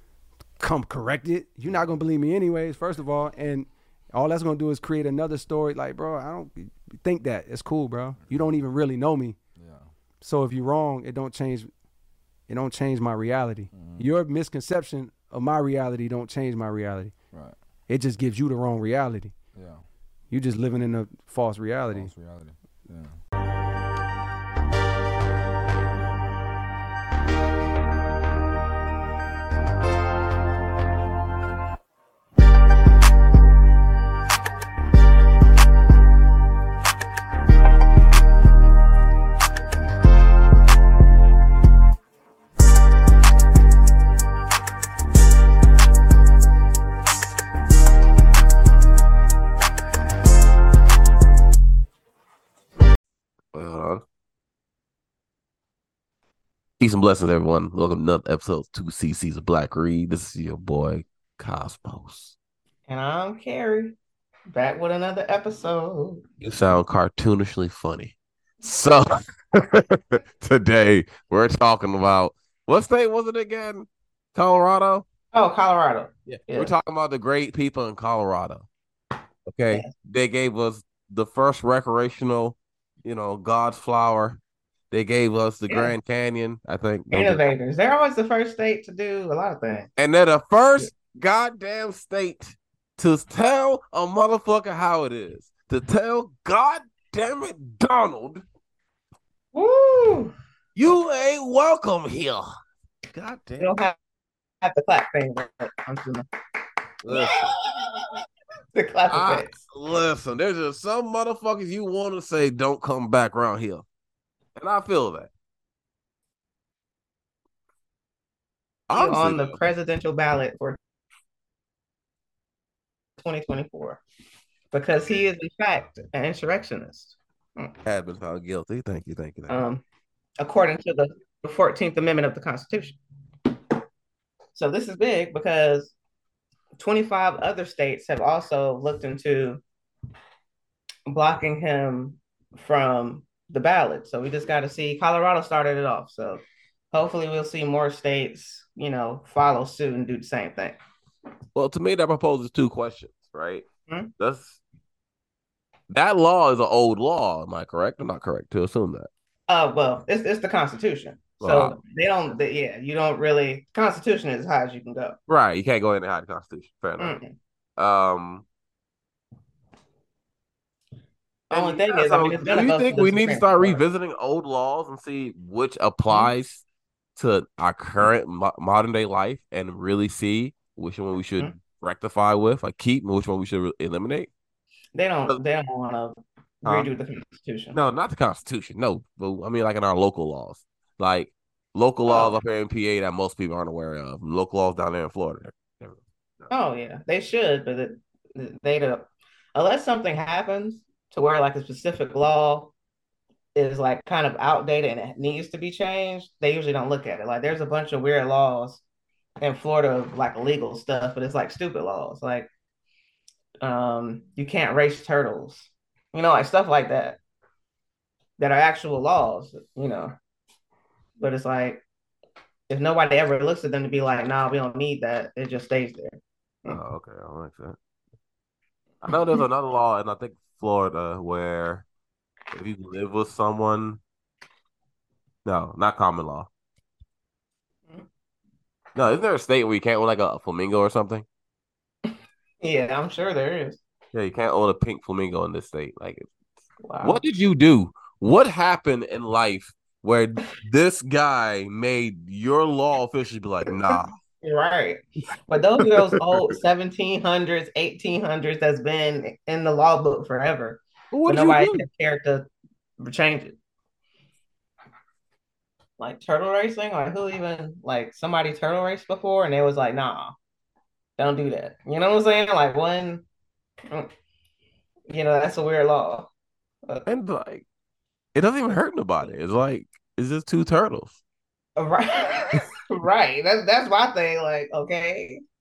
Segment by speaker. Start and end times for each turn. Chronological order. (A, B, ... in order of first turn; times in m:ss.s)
0:00.6-0:09.4 A
0:09.6-0:09.9 B
0:10.2-0:11.8 A
0:12.5-0:17.3 A
0:13.7-0:14.1 B
0:17.3-0:17.6 B
0:17.8-0:19.4 A
0:19.5-0:19.9 B
0:20.3-0:22.1 A
0:21.9-0:23.2 B
0:53.5-0:54.0 C
0:56.8-1:02.4 C
1:02.9-1:03.9 D
1:04.5-1:06.2 D
1:06.4-1:15.0 C
1:15.3-1:16.7 D
1:16.3-1:18.7 C
1:19.4-1:24.4 C
1:24.9-1:27.4 C
1:25.7-1:25.9 D
1:27.1-1:29.9 D
1:30.0-1:38.4 C
1:39.5-1:40.3 D
1:40.7-1:42.5 C
1:43.1-1:43.7 C
1:43.6-1:44.0 D
1:44.6-1:46.2 D
1:47.0-1:47.5 C
1:47.1-1:49.5 D
1:49.1-1:53.8 C
1:54.6-1:55.3 C
1:58.9-1:59.6 C
1:58.9-2:00.8 D
2:03.2-2:04.0 D
2:04.7-2:07.7 D
2:07.8-2:09.6 C
2:09.5-2:09.8 D
2:10.4-2:13.0 D
2:14.5-2:16.0 D
2:16.8-2:19.6 D
2:21.1-2:30.8 D
2:31.5-2:33.6 C
2:34.2-2:34.6 C
2:35.9-2:39.1 C
2:39.5-2:45.1 D
2:41.4-2:41.8 C
2:45.3-2:47.2 C
2:47.0-2:47.3 D
2:47.8-2:48.4 C
2:51.5-2:53.8 D
2:51.5-2:56.6 C
2:57.2-3:04.3 C
3:04.9-3:07.8 D
3:07.7-3:16.5 C
3:12.1-3:12.3 D
3:16.5-3:22.7 D
3:23.5-3:28.8 D
3:29.4-3:32.5 D
3:33.6-3:37.2 D
3:38.4-3:40.1 D
3:41.2-3:41.8 D
3:42.7-3:46.8 D
3:46.7-3:47.8 C
3:49.0-3:51.8 C
3:49.1-3:49.4 D
3:52.5-3:54.0 C
3:55.4-3:56.5 C
3:58.9-4:01.2 C
4:02.1-4:03.8 D
4:04.1-4:06.3 C
4:06.8-4:07.2 D
4:07.0-4:14.1 C
4:13.9-4:23.6 D
4:15.8-4:16.4 C
4:21.1-4:21.8 C
4:26.0-4:30.3 D
4:31.2-4:33.2 D
4:35.1-4:36.3 D
4:37.0-4:37.6 C
4:38.3-4:41.2 C
4:41.8-4:45.4 D